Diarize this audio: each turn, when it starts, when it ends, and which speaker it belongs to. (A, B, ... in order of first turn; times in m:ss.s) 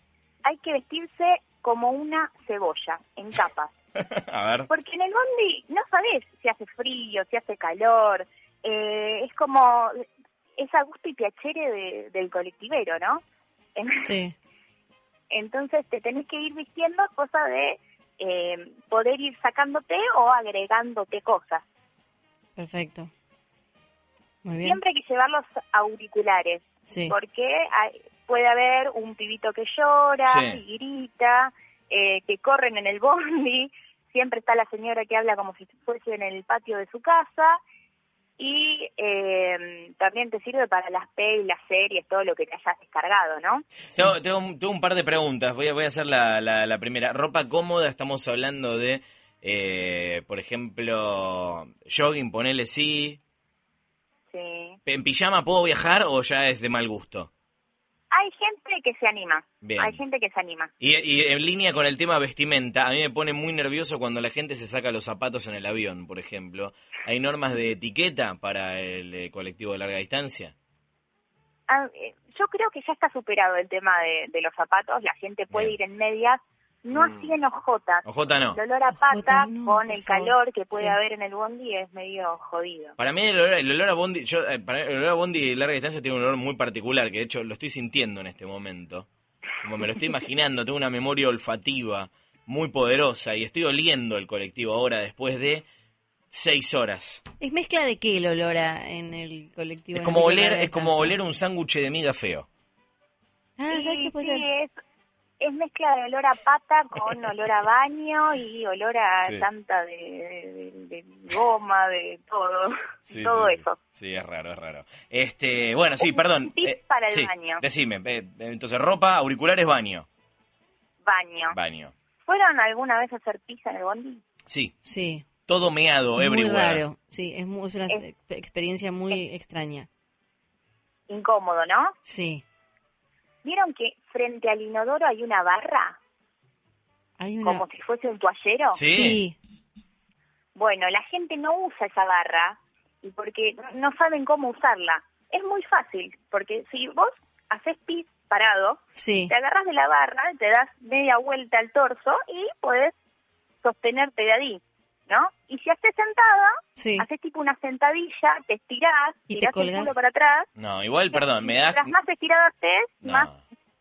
0:00.4-0:03.7 A
0:04.0-0:04.7 B
0:04.7-0:10.0 A
0:10.6-0:13.2 A
0:13.8-0:14.0 A
0:14.0-0:14.4 C
0:15.3-0:21.6 A
0:22.6-0:23.1 C
0:24.4-0:24.8 C
0:24.6-0:37.6 A
0:26.9-0:27.2 C
0:30.3-0:30.6 B
0:38.4-0:43.7 A
0:43.9-0:53.2 B
0:54.3-0:54.8 A
0:54.9-0:57.3 B
0:58.1-1:00.7 A
0:59.6-1:00.0 B
1:00.8-1:10.5 B
1:11.7-1:23.0 A
1:16.9-1:17.4 B
1:18.0-1:18.6 B
1:18.9-1:21.0 C
1:23.0-1:29.1 B
1:29.6-1:35.6 B
1:36.3-1:37.2 B
1:37.4-1:41.2 C
1:40.0-1:42.5 B
1:43.6-1:44.4 C
1:43.7-1:44.7 A
1:45.4-1:53.8 A
1:53.1-2:00.1 B
1:56.0-1:57.6 A
2:01.0-2:01.6 A
2:01.5-2:01.9 B
2:02.3-2:04.2 A
2:04.5-2:04.7 B
2:04.8-2:05.3 C
2:05.5-2:06.8 B
2:06.2-2:09.9 C
2:11.1-2:11.9 A
2:12.0-2:12.4 C
2:13.4-2:16.0 A
2:17.2-2:17.6 C
2:17.4-2:18.8 A
2:18.7-2:19.2 B
2:18.9-2:19.4 C
2:20.6-2:32.9 A
2:29.0-2:29.3 C
2:33.6-2:40.5 A
2:36.8-2:37.1 C
2:39.3-2:40.0 C
2:40.6-2:41.9 B
2:41.1-2:43.3 A
2:43.0-2:43.4 B